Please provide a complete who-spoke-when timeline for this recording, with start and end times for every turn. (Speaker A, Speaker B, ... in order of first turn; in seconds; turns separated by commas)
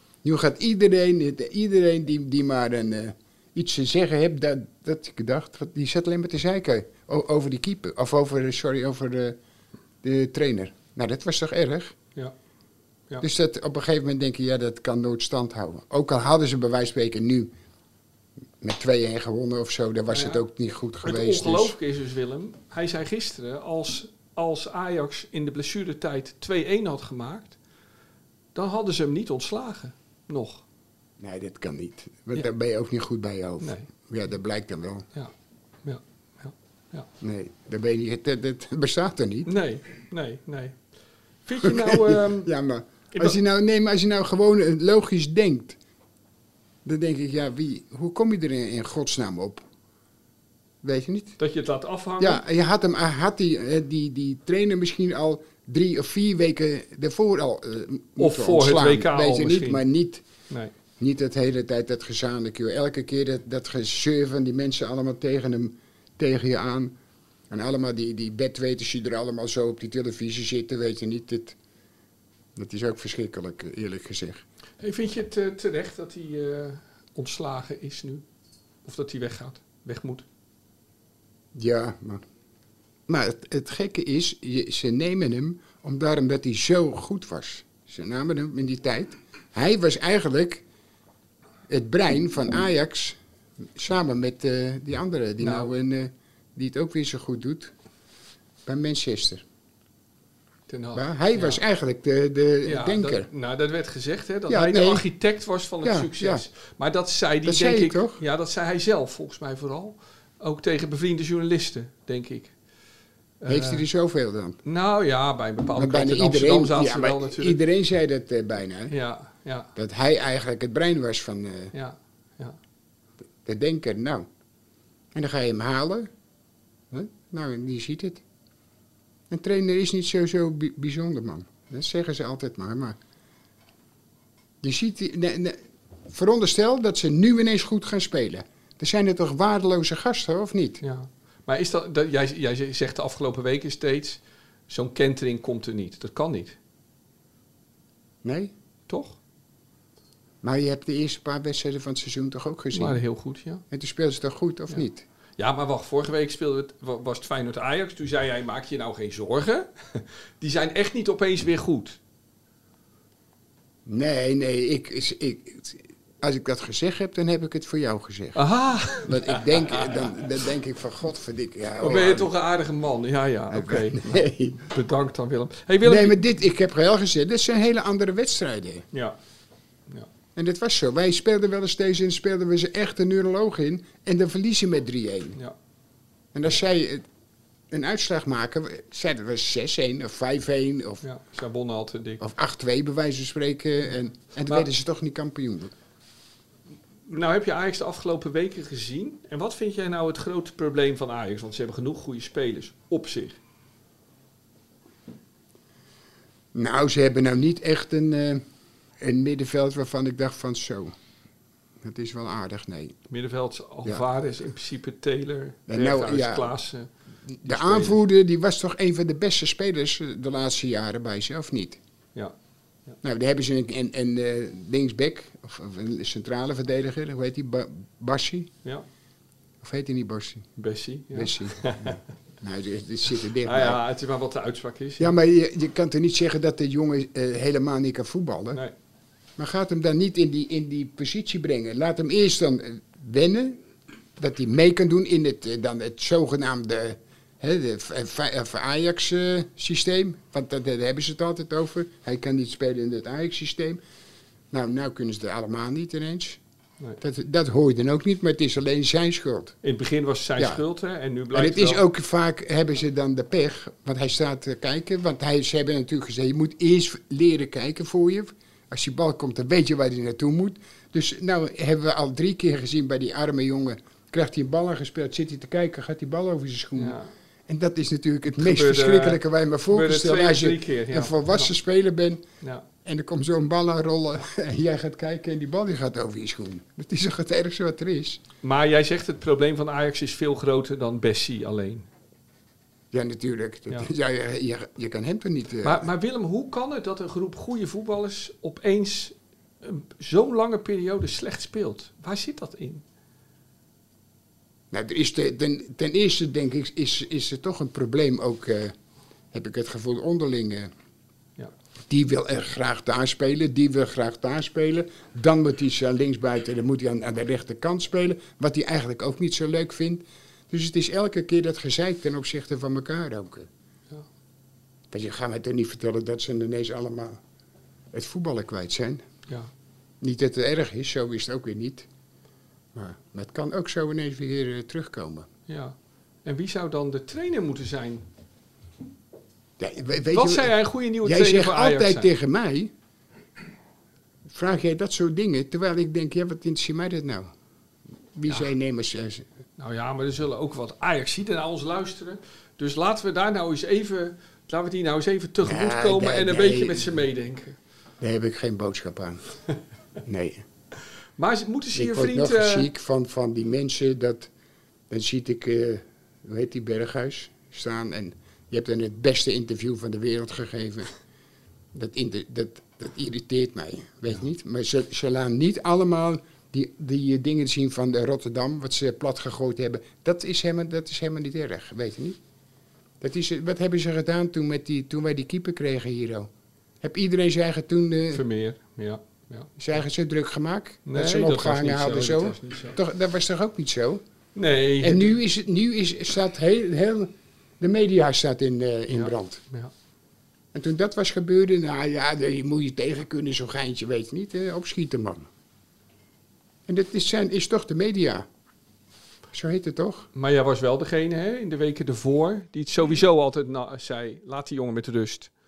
Speaker A: 0.2-9.4, Speaker A: 10.0-11.9, Speaker A: 13.2-17.5, Speaker A: 18.6-21.8, Speaker B: 20.1-20.4, Speaker B: 21.0-27.6, Speaker B: 28.5-30.6, Speaker A: 31.2-35.0, Speaker B: 33.6-33.9, Speaker B: 35.8-37.1, Speaker A: 37.2-39.5, Speaker B: 39.4-40.8, Speaker B: 41.5-42.5, Speaker A: 41.6-45.8, Speaker B: 43.1-43.4, Speaker A: 46.8-49.6, Speaker A: 50.8-51.4, Speaker B: 51.4-52.4, Speaker A: 52.2-60.2, Speaker B: 58.2-59.8, Speaker A: 61.0-67.0, Speaker A: 67.5-71.5, Speaker A: 72.5-74.4, Speaker B: 74.8-78.2, Speaker B: 78.8-80.2, Speaker A: 81.5-82.2, Speaker A: 83.1-90.6, Speaker A: 91.7-93.2, Speaker A: 93.7-97.7, Speaker B: 95.4-95.7, Speaker A: 98.7-99.4, Speaker B: 100.7-101.6, Speaker A: 100.9-103.3, Speaker B: 102.6-112.5, Speaker A: 104.5-105.0, Speaker A: 105.8-106.4, Speaker A: 107.4-108.2, Speaker B: 113.4-113.8, Speaker A: 113.5-114.6, Speaker B: 114.6-117.6, Speaker A: 115.8-118.9, Speaker B: 118.9-119.7, Speaker A: 119.8-121.7, Speaker B: 121.7-122.6, Speaker A: 123.4-124.3, Speaker A: 125.1-126.1, Speaker A: 126.9-128.2, Speaker A: 129.3-132.9, Speaker A: 134.6-140.8, Speaker B: 140.8-146.6, Speaker A: 148.2-148.5, Speaker B: 148.9-149.2, Speaker A: 150.4-153.0, Speaker B: 152.7-153.6, Speaker A: 153.7-155.1, Speaker B: 155.4-162.0, Speaker A: 163.8-168.4, Speaker B: 168.3-170.2, Speaker A: 169.0-172.3, Speaker B: 171.8-176.2, Speaker A: 173.5-174.7, Speaker A: 175.8-178.9, Speaker A: 180.3-185.4, Speaker A: 186.3-187.0, Speaker A: 187.7-191.0, Speaker B: 191.0-192.2, Speaker A: 192.2-195.7, Speaker B: 197.1-203.4, Speaker A: 206.5-208.4, Speaker A: 209.0-210.9, Speaker A: 211.8-213.0, Speaker B: 213.1-216.9, Speaker A: 215.7-216.5, Speaker A: 217.3-221.8, Speaker B: 217.4-218.0, Speaker A: 223.0-228.5, Speaker A: 229.6-230.5, Speaker B: 230.6-232.0, Speaker A: 231.1-233.8, Speaker B: 233.4-235.1, Speaker A: 235.0-238.6, Speaker A: 239.4-243.6, Speaker A: 244.2-253.8, Speaker A: 254.5-256.4, Speaker A: 257.0-259.5, Speaker B: 259.6-261.8, Speaker A: 260.4-260.6, Speaker A: 261.3-282.2, Speaker B: 276.8-277.1, Speaker B: 278.3-281.5, Speaker A: 282.8-288.2, Speaker B: 288.4-291.9, Speaker A: 292.9-295.8, Speaker B: 295.6-302.8, Speaker A: 304.7-308.7, Speaker A: 309.3-310.7, Speaker A: 311.9-323.5, Speaker A: 324.9-327.2, Speaker A: 327.9-329.0, Speaker A: 330.0-331.9, Speaker A: 332.7-335.3, Speaker B: 335.5-338.1, Speaker A: 339.6-342.7, Speaker B: 340.1-342.1, Speaker A: 344.2-347.3, Speaker A: 348.1-349.3, Speaker B: 349.6-357.6, Speaker A: 355.4-356.9, Speaker A: 358.0-359.2, Speaker A: 360.0-360.4, Speaker B: 361.2-362.7, Speaker A: 361.7-364.3, Speaker A: 364.9-370.9, Speaker A: 371.7-382.2, Speaker A: 383.0-386.3, Speaker A: 386.8-388.2, Speaker B: 388.1-389.5, Speaker A: 389.6-394.0, Speaker B: 390.9-392.8, Speaker B: 394.3-395.2, Speaker A: 394.8-399.4, Speaker B: 398.9-399.7, Speaker A: 400.5-405.3, Speaker A: 406.7-408.2, Speaker A: 409.3-410.1, Speaker B: 410.1-415.3